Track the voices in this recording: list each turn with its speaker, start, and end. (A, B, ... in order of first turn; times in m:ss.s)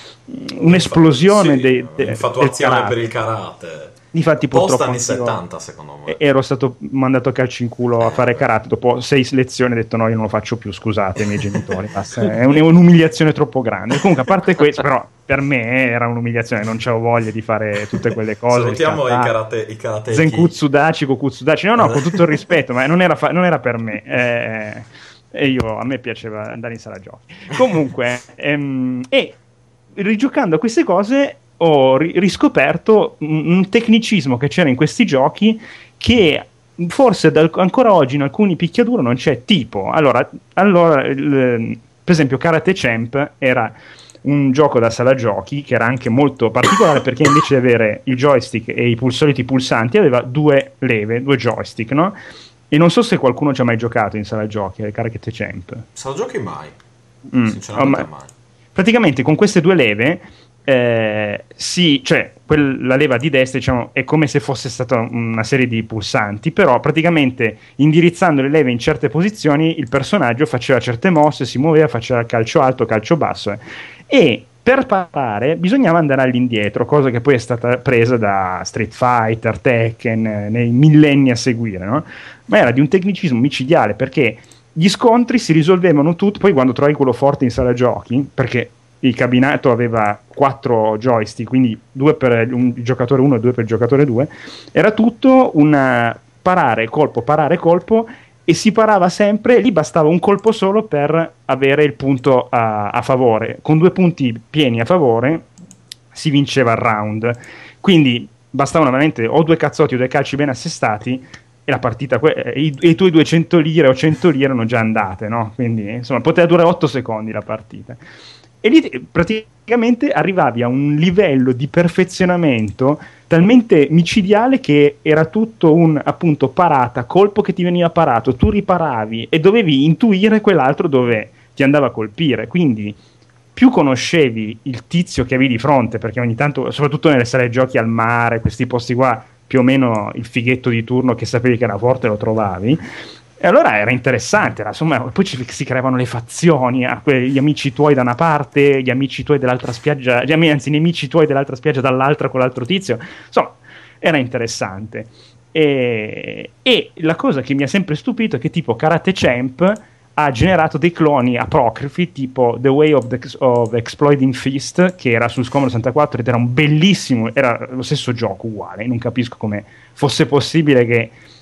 0:00.3-0:03.0 A
0:00.6-0:06.2 B
0:04.1-0:05.4 A
0:06.1-0:19.3 A
0:08.0-0:08.4 B
0:18.5-0:20.6 B
0:20.1-0:29.4 A
0:21.8-0:22.2 B
0:29.9-0:52.2 A
0:52.7-0:55.8 A
0:56.0-0:56.8 B
0:57.3-0:58.1 A
0:57.4-0:58.3 B
0:58.7-1:45.5 A
1:46.1-1:58.0 A
1:58.6-2:13.0 A
2:13.6-2:22.8 A
2:23.4-2:51.1 A